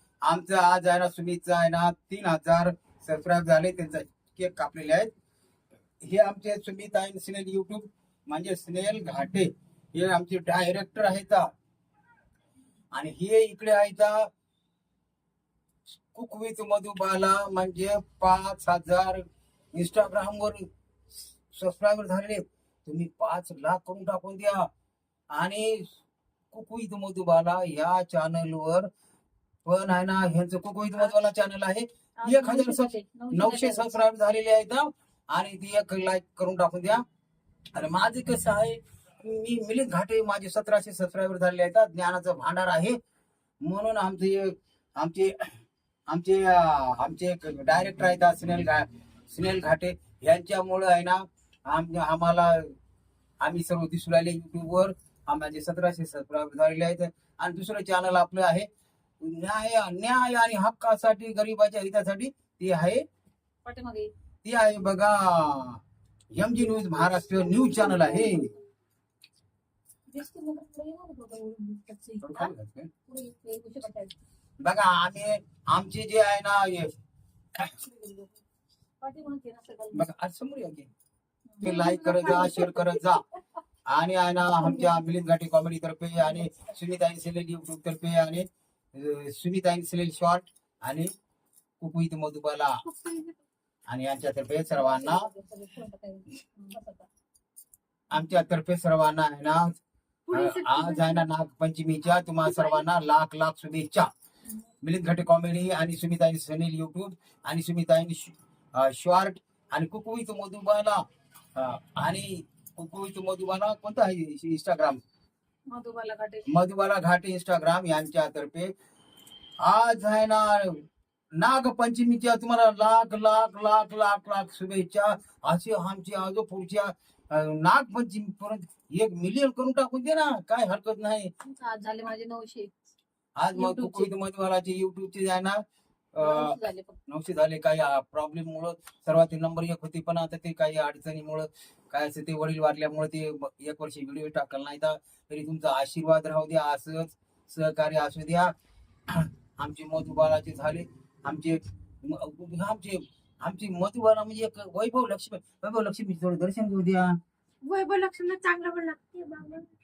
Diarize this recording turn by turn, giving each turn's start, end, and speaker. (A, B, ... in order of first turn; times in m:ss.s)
0:00.2-0:05.1 A
0:06.0-0:11.5 A
0:12.9-0:14.3 A
0:16.1-0:20.7 A
0:21.5-0:24.7 A
0:25.3-0:26.0 A
0:26.5-0:28.9 A
0:29.6-0:37.0 A
0:32.2-0:34.0 B
0:37.8-0:43.0 A
0:43.6-0:52.7 A
0:53.4-0:58.7 A
0:59.2-1:03.0 A
1:03.6-1:04.1 B
1:04.4-1:05.8 A
1:06.3-1:08.5 A
1:07.8-1:08.3 B
1:10.1-1:12.5 B
1:12.2-1:12.9 A
1:13.1-1:14.2 B
1:14.6-1:17.0 A
1:17.8-1:18.4 B
1:19.0-1:20.1 B
1:19.9-1:20.9 A
1:21.5-1:22.6 B
1:21.6-1:23.2 A
1:21.7-1:23.0 C
1:23.9-1:31.1 A
1:24.6-1:24.9 B
1:31.8-1:32.8 A
1:32.8-1:33.4 C
1:33.9-1:35.3 A
1:34.7-1:37.1 B
1:38.1-1:39.8 A
1:40.3-1:41.3 C
1:40.3-1:44.1 A
1:42.4-1:42.8 C
1:44.8-1:51.0 A
1:51.6-1:55.0 A
1:55.7-1:56.4 B
1:56.5-1:58.7 A
1:59.6-2:00.8 A
2:01.4-2:11.3 A
2:11.4-2:12.7 B
2:13.4-2:16.6 A
2:13.5-2:14.1 B
2:16.2-2:17.0 B
2:17.1-2:28.5 A
2:29.1-2:37.2 A
2:37.6-2:39.7 C